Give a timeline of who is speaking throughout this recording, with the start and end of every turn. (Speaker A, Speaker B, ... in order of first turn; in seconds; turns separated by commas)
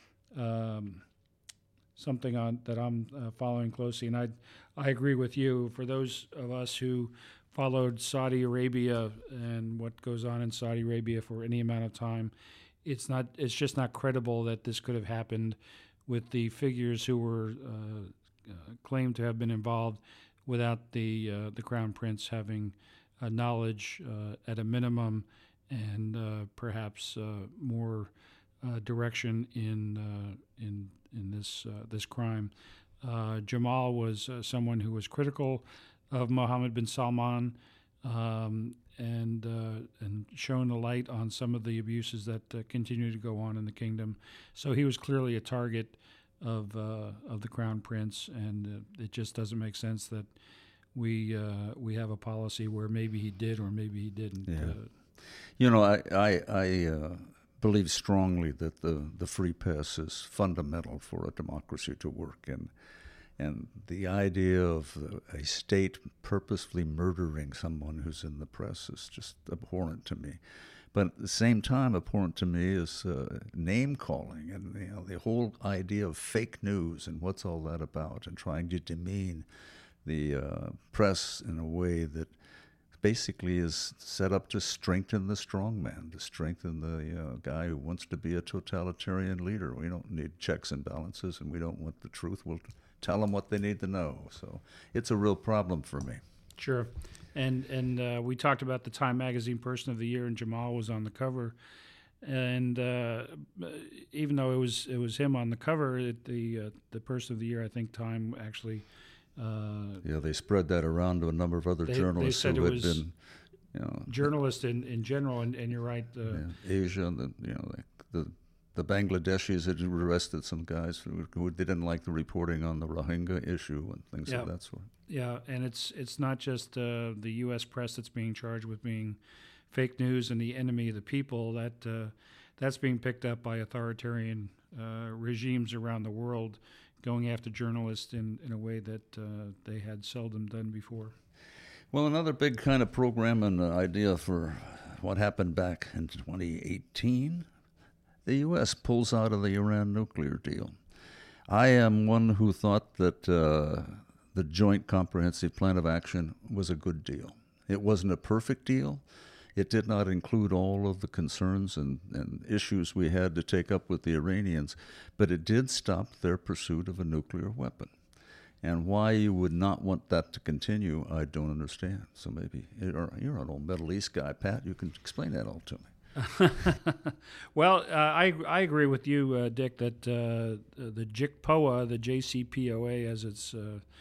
Speaker A: 0.3-1.0, Speaker A: 2.0-12.3, Speaker A: 12.8-50.3, Speaker A: 50.9-54.9, Speaker B: 54.5-54.8, Speaker B: 55.6-62.7, Speaker B: 63.4-70.4, Speaker B: 70.9-79.5, Speaker B: 80.0-82.3, Speaker B: 83.0-96.2, Speaker A: 96.6-101.5, Speaker A: 102.2-108.8, Speaker A: 109.4-110.0, Speaker B: 110.0-113.1, Speaker A: 111.9-113.0, Speaker B: 113.7-114.3, Speaker A: 114.1-116.5, Speaker B: 116.3-124.9, Speaker A: 125.1-129.2, Speaker A: 129.7-141.1, Speaker B: 141.9-147.5, Speaker B: 148.2-150.8, Speaker B: 151.5-159.0, Speaker B: 159.6-167.9, Speaker B: 168.6-175.9, Speaker A: 176.2-183.8